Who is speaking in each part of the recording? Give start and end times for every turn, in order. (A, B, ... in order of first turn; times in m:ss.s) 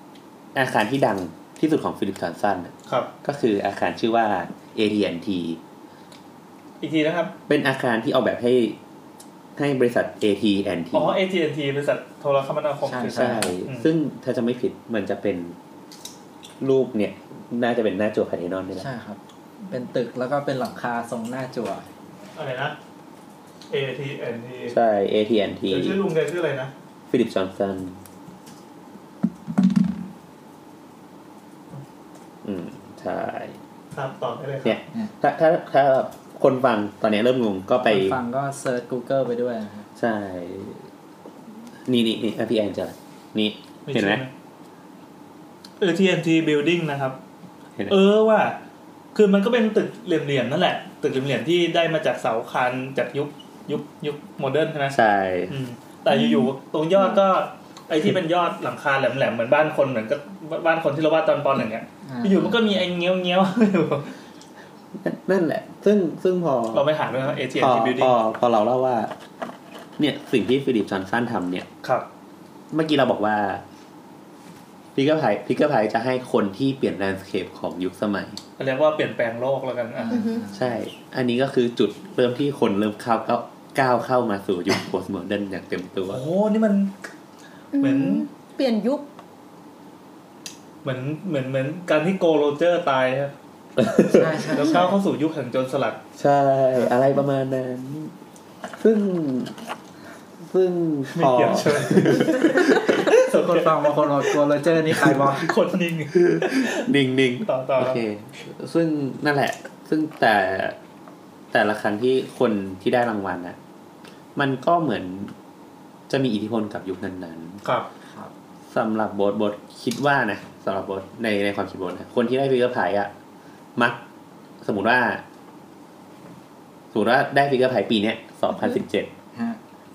0:00.6-0:05.6 A
0:06.8-0:07.3 B
0:07.5-0:08.8 A
0:09.6-0:11.2 A
0:10.9-0:13.9 B
0:12.8-0:13.6 C
0:13.1-0:15.6 A
0:16.6-0:18.9 A
0:18.8-0:21.9 C
0:22.4-0:22.8 B
0:23.7-0:24.8 B
0:24.7-0:26.0 A
0:25.7-0:26.7 B
0:27.1-0:28.0 A
0:32.4-0:33.6 A
0:33.9-0:34.8 B
0:34.6-0:38.2 A
0:37.9-0:39.9 C
0:40.0-0:40.9 A
0:41.9-0:44.2 A
0:43.9-0:44.3 B
0:45.8-0:47.2 B
0:47.9-0:48.6 B
0:49.1-0:55.0 B
0:54.9-0:55.6 A
0:55.5-1:04.1 B
0:56.1-0:57.2 D
1:02.0-1:02.7 C
1:05.0-1:06.9 A
1:06.7-1:08.2 B
1:07.6-1:09.1 A
1:10.0-1:11.7 A
1:12.7-1:13.6 A
1:15.0-1:18.4 A
1:18.6-1:20.4 B
1:20.1-1:20.6 C
1:20.1-1:20.5 D
1:20.5-1:26.2 A
1:26.1-1:26.9 B
1:27.7-1:29.1 D
1:27.8-1:28.3 B
1:30.8-1:33.3 B
1:33.8-1:34.6 A
1:34.1-1:34.9 C
1:34.5-1:36.0 B
1:36.2-1:38.1 A
1:38.8-1:39.6 A
1:40.4-1:43.1 A
1:41.1-1:44.3 B
1:43.2-1:45.5 C
1:45.0-1:46.9 B
1:46.1-1:50.8 A
1:47.5-1:48.0 B
1:51.5-1:53.6 A
1:54.4-1:55.4 A
1:56.1-1:57.6 A
1:58.1-1:58.3 C
1:58.7-2:03.1 A
2:04.6-2:05.2 A
2:06.9-2:09.1 A
2:09.4-2:09.6 C